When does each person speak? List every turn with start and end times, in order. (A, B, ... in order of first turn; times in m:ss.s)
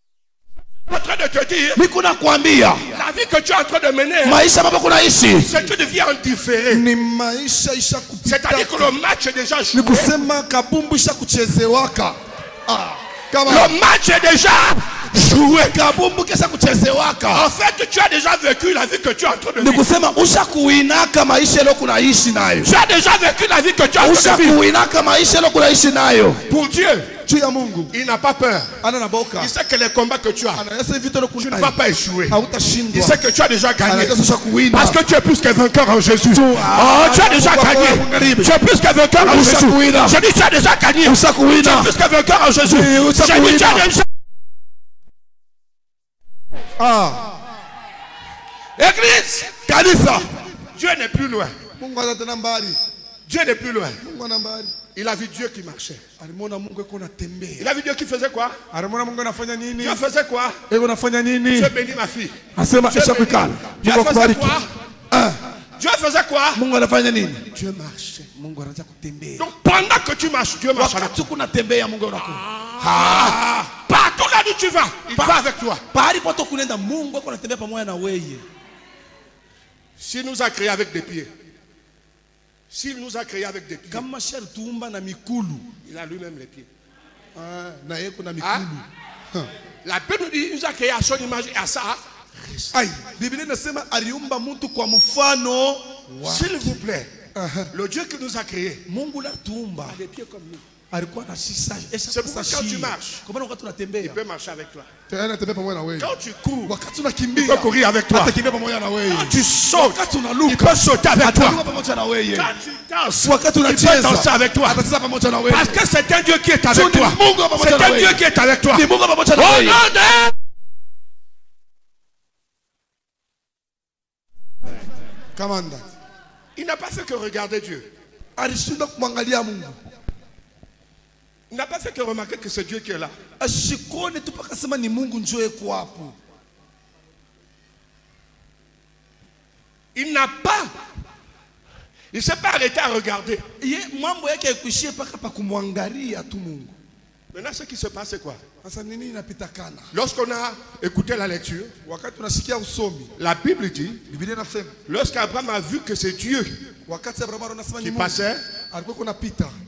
0:00.9-0:01.8 A
0:01.8-0:02.8 B
0:02.9-0:04.4 A
0:04.2-0:05.5 B
0:05.3-0:06.8 A
0:06.7-0:08.9 B
0:08.2-0:10.1 A
0:09.7-0:13.8 B
0:13.4-0:15.7 A
0:15.6-0:17.5 B
0:17.3-0:19.8 A
0:19.6-0:22.8 B
0:22.6-0:24.6 A
0:24.0-0:26.4 B
0:26.5-0:27.1 A
0:27.2-0:27.9 B
0:27.9-0:28.7 A
0:28.8-0:29.5 B
0:29.4-0:30.6 A
0:30.5-0:31.7 B
0:31.4-0:32.4 A
0:32.3-0:33.2 B
0:32.9-0:34.2 A
0:33.8-0:35.0 B
0:34.7-0:44.0 A
0:36.3-0:38.5 B
0:39.2-0:40.2 B
0:41.0-0:41.9 B
0:42.6-0:43.9 B
0:46.8-0:47.4 B
0:48.8-0:49.5 A
0:49.6-0:50.3 B
0:50.7-0:51.5 A
0:51.8-0:52.8 B
0:53.3-0:54.0 A
0:54.0-0:54.7 B
0:54.9-0:56.0 A
0:56.2-0:57.7 B
0:57.6-0:58.6 A
0:58.7-1:00.0 B
0:59.8-1:00.6 A
1:00.7-1:01.7 B
1:01.5-1:02.4 A
1:02.6-1:04.6 B
1:02.9-1:04.7 A
1:05.1-1:05.4 B
1:05.8-1:06.6 A
1:06.5-1:07.4 B
1:07.5-1:08.3 A
1:08.3-1:09.5 B
1:09.4-1:11.1 A
1:10.8-1:13.7 B
1:12.2-1:15.8 A
1:15.1-1:18.4 B
1:20.0-1:21.3 A
1:22.7-1:24.0 A
1:23.9-1:25.7 B
1:25.8-1:26.7 A
1:27.4-1:29.5 B
1:28.4-1:28.6 A
1:29.8-1:32.7 A
1:32.7-1:36.8 B
1:36.2-1:37.1 A
1:37.3-1:37.7 B
1:37.7-1:38.8 A
1:38.8-1:40.0 B
1:39.9-1:40.6 A
1:40.9-1:44.2 B
1:42.1-1:43.2 A
1:44.0-1:44.9 A
1:45.1-1:46.1 B
1:46.0-1:46.7 A
1:46.6-1:52.5 B
1:47.3-1:48.3 A
1:49.1-1:51.6 A
1:52.3-1:54.8 A
1:53.2-1:55.8 B
1:55.5-2:00.3 A
1:56.7-1:59.8 B
2:05.3-2:05.9 B
2:06.6-2:07.8 A
2:08.4-2:09.8 B
2:11.5-2:13.1 A
2:13.4-2:16.2 B
2:19.9-2:20.7 A
2:22.1-2:23.4 A
2:23.6-2:26.8 B
2:27.3-2:28.4 A
2:28.6-2:29.9 B
2:29.9-2:31.7 A
2:31.8-2:33.1 B
2:33.2-2:34.0 A
2:34.1-2:34.7 B
2:34.9-2:36.6 A
2:36.9-2:39.5 B
2:37.8-2:38.4 A